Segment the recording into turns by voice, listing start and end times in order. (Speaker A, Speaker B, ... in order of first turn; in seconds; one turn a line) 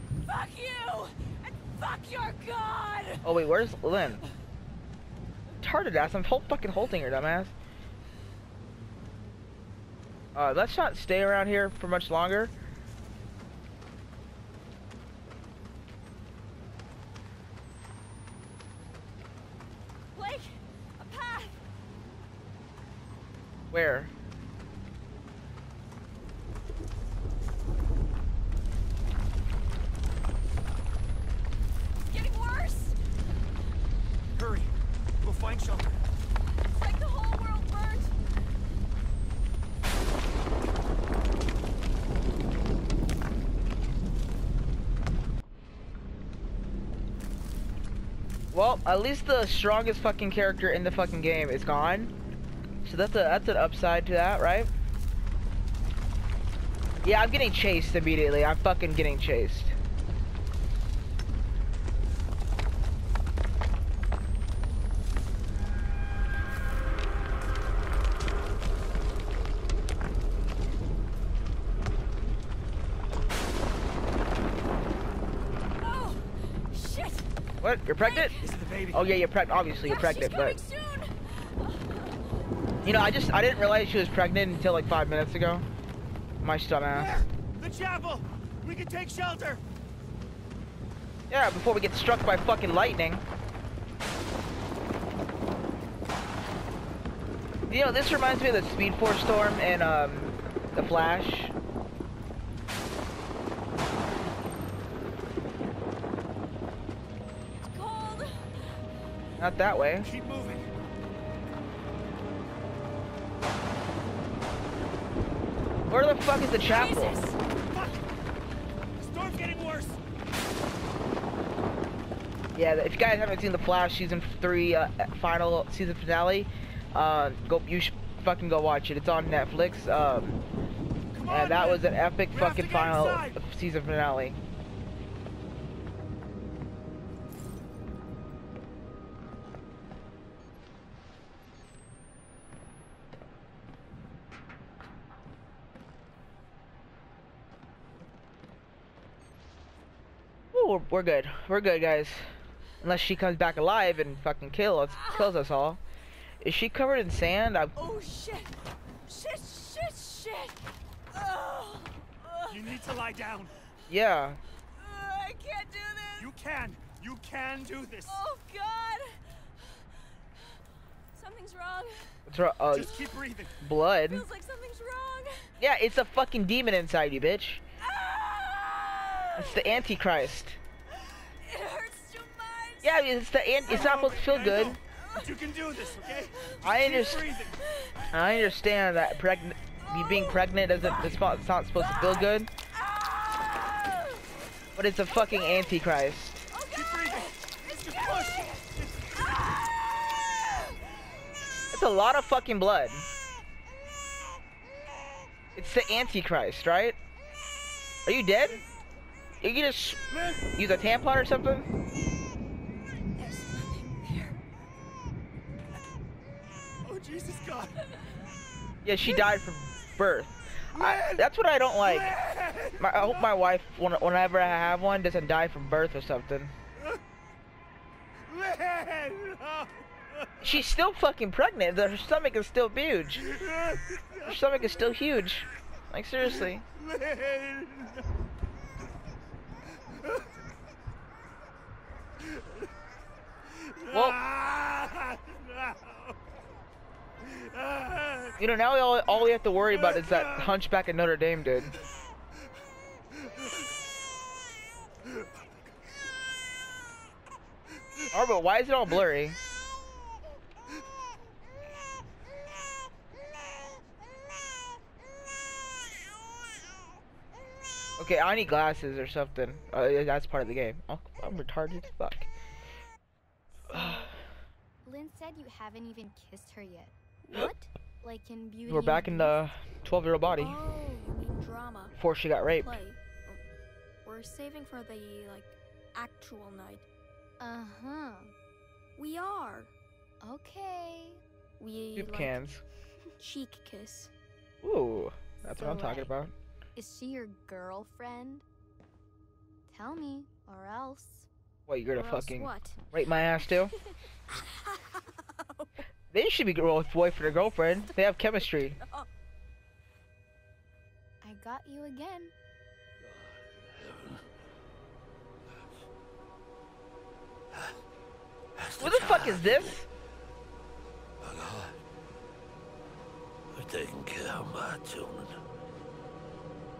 Speaker A: 0.2-3.2
Speaker B: 3.2-4.2
Speaker B: 5.6-7.5
Speaker B: 10.3-12.5
Speaker A: 20.1-21.6
Speaker B: 23.7-24.1
Speaker A: 32.1-33.0
Speaker C: 34.3-36.0
Speaker A: 36.7-38.1
Speaker B: 48.5-52.1
Speaker B: 52.8-54.7
Speaker B: 57.0-59.7
Speaker A: 75.8-77.3
Speaker B: 77.6-78.3
Speaker A: 78.0-78.5
Speaker C: 78.4-79.1
Speaker B: 78.9-80.6
Speaker A: 79.8-82.1
Speaker B: 82.8-85.6
Speaker B: 86.4-87.2
Speaker C: 86.9-89.6
Speaker B: 91.3-93.2
Speaker B: 97.7-101.5
Speaker A: 107.5-108.5
Speaker B: 109.4-110.1
Speaker C: 110.0-110.7
Speaker B: 115.9-117.2
Speaker A: 116.7-117.4
Speaker C: 117.7-118.0
Speaker C: 119.0-120.0
Speaker B: 122.5-130.4
Speaker C: 131.1-133.4
Speaker B: 131.2-134.4
Speaker B: 150.5-152.2
Speaker B: 152.8-155.8
Speaker A: 154.9-155.3
Speaker B: 156.4-157.7
Speaker A: 157.8-158.5
Speaker A: 159.1-162.8
Speaker C: 162.5-163.5
Speaker B: 163.9-164.4
Speaker A: 164.7-166.3
Speaker C: 166.2-168.2
Speaker A: 168.1-170.6
Speaker A: 171.1-172.2
Speaker B: 172.3-173.1
Speaker C: 172.7-173.6
Speaker B: 173.6-174.2
Speaker A: 174.1-175.5
Speaker B: 175.6-177.6
Speaker A: 177.8-179.8
Speaker B: 179.3-180.6
Speaker A: 180.9-183.0
Speaker B: 182.8-184.8
Speaker C: 183.7-187.6
Speaker A: 185.0-185.3
Speaker A: 186.2-186.6
Speaker B: 186.6-187.2
Speaker A: 187.6-187.9
Speaker B: 188.1-192.5
Speaker A: 191.8-194.2
Speaker B: 194.7-196.5
Speaker A: 196.5-198.6
Speaker C: 196.7-199.5
Speaker A: 199.2-199.7
Speaker B: 201.7-203.1
Speaker B: 205.6-206.9
Speaker B: 208.1-208.6
Speaker B: 209.4-211.7
Speaker C: 210.1-210.4
Speaker A: 213.2-214.4
Speaker C: 216.8-217.8
Speaker B: 218.8-222.1
Speaker C: 220.7-221.2
Speaker C: 221.8-223.3
Speaker B: 222.8-226.5
Speaker C: 228.2-230.4
Speaker B: 230.4-233.3
Speaker C: 233.2-234.4
Speaker B: 234.2-236.6
Speaker C: 236.2-238.0
Speaker C: 239.9-240.3
Speaker C: 243.5-246.1
Speaker B: 243.9-244.2
Speaker C: 247.2-248.4
Speaker B: 248.4-251.7
Speaker C: 249.6-250.6
Speaker B: 258.1-259.4
Speaker B: 268.0-272.3
Speaker B: 273.7-274.1
Speaker D: 273.7-274.0
Speaker D: 274.8-276.9
Speaker A: 277.2-277.7
Speaker D: 278.0-279.4
Speaker B: 278.7-280.6
Speaker A: 280.4-281.9
Speaker B: 281.9-282.8
Speaker A: 282.6-283.4
Speaker A: 284.0-286.8
Speaker D: 287.4-288.3
Speaker A: 289.0-289.7
Speaker D: 290.2-291.2
Speaker A: 291.6-292.4
Speaker B: 291.9-292.6
Speaker A: 293.2-294.1
Speaker B: 294.6-296.3
Speaker D: 295.4-296.1
Speaker D: 296.7-298.4
Speaker D: 299.7-301.3
Speaker B: 301.7-303.7
Speaker A: 301.9-302.9
Speaker A: 303.8-305.8
Speaker B: 306.1-308.8
Speaker D: 311.2-312.3
Speaker E: 313.0-314.3
Speaker E: 317.5-317.8
Speaker E: 318.6-319.8
Speaker B: 318.8-319.9
Speaker E: 321.2-321.8
Speaker E: 323.5-325.4